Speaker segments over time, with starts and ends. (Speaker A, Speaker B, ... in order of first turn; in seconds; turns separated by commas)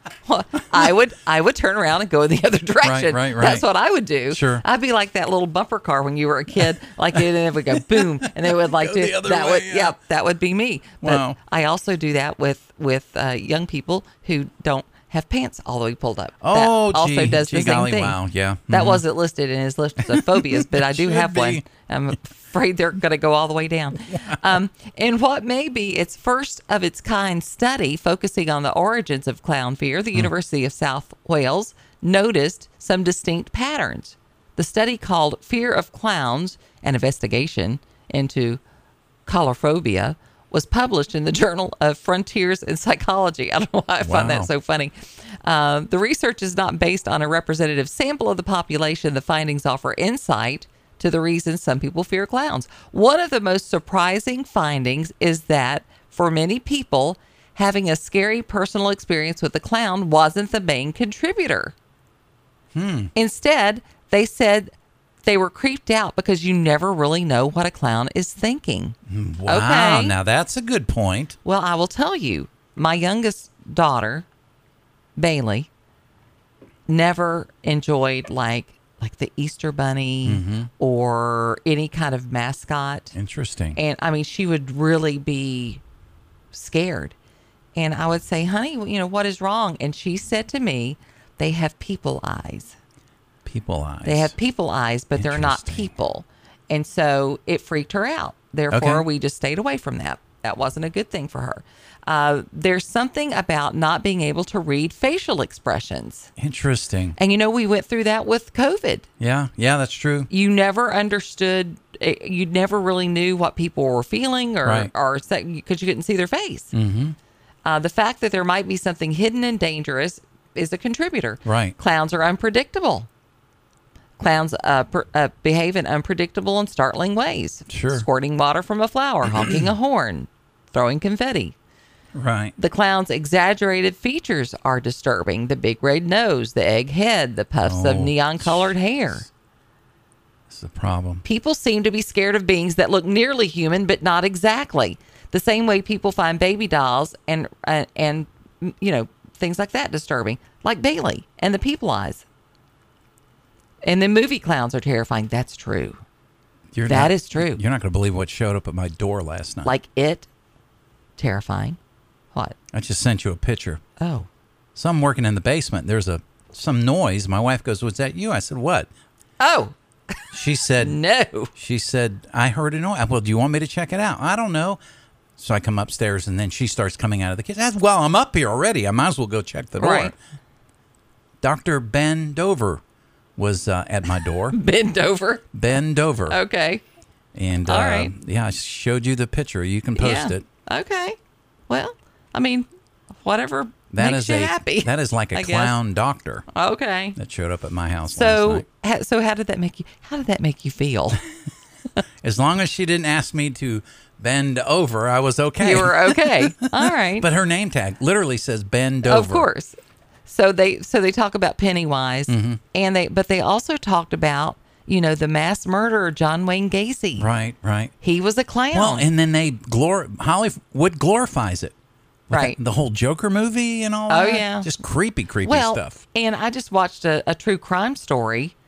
Speaker A: 0.3-18.2, Speaker B: 2.8-3.7, Speaker B: 4.3-4.6, Speaker B: 8.5-10.0, Speaker B: 11.0-11.4, Speaker B: 16.4-19.0, Speaker A: 18.7-38.6, Speaker B: 20.1-21.6, Speaker A: 39.3-61.7, Speaker B: 44.0-44.5, Speaker B: 62.8-63.1, Speaker A: 63.1-64.7, Speaker A: 65.2-70.1, Speaker B: 69.1-71.4, Speaker A: 71.5-74.3, Speaker A: 75.2-75.7, Speaker A: 76.9-83.2, Speaker B: 80.3-80.7, Speaker B: 83.2-83.8, Speaker A: 83.8-85.8, Speaker A: 86.5-87.2, Speaker A: 87.8-92.8, Speaker B: 93.5-94.3, Speaker A: 94.0-106.3, Speaker B: 95.2-95.9, Speaker B: 98.7-99.1, Speaker B: 106.4-107.2, Speaker A: 107.2-109.1, Speaker B: 109.2-110.3, Speaker A: 110.3-116.7, Speaker B: 114.7-114.9, Speaker B: 116.7-117.2, Speaker A: 117.7-123.1, Speaker B: 121.5-121.8, Speaker A: 124.2-131.6, Speaker B: 127.7-128.1, Speaker B: 129.3-129.7, Speaker B: 132.2-132.6, Speaker A: 132.6-139.2, Speaker B: 137.7-139.3, Speaker B: 140.5-141.2, Speaker A: 141.2-152.2, Speaker A: 153.8-156.0, Speaker B: 156.7-159.7, Speaker A: 156.9-157.6, Speaker A: 159.7-160.3, Speaker A: 161.2-161.8, Speaker B: 162.7-163.8, Speaker A: 164.0-164.3, Speaker B: 164.8-168.9, Speaker A: 169.4-169.8, Speaker B: 170.3-171.0, Speaker A: 170.8-171.5, Speaker B: 171.5-174.8, Speaker B: 175.4-180.2, Speaker A: 179.8-180.1, Speaker B: 181.4-182.8, Speaker B: 183.4-184.6, Speaker A: 184.5-185.5, Speaker B: 185.5-186.4, Speaker A: 186.3-186.8, Speaker B: 187.3-190.5, Speaker A: 187.7-188.1, Speaker A: 190.0-191.2, Speaker A: 191.7-192.7, Speaker A: 193.2-195.8, Speaker B: 193.9-196.5, Speaker A: 196.5-197.2, Speaker B: 197.2-198.7, Speaker A: 198.1-201.2, Speaker B: 202.2-206.6, Speaker A: 205.6-207.3, Speaker B: 207.2-209.5, Speaker A: 209.0-217.3, Speaker B: 212.3-212.6, Speaker B: 217.2-217.9, Speaker A: 218.0-219.1, Speaker B: 218.7-221.7, Speaker B: 222.3-226.0, Speaker A: 222.3-222.6, Speaker A: 224.1-224.7, Speaker A: 225.4-228.6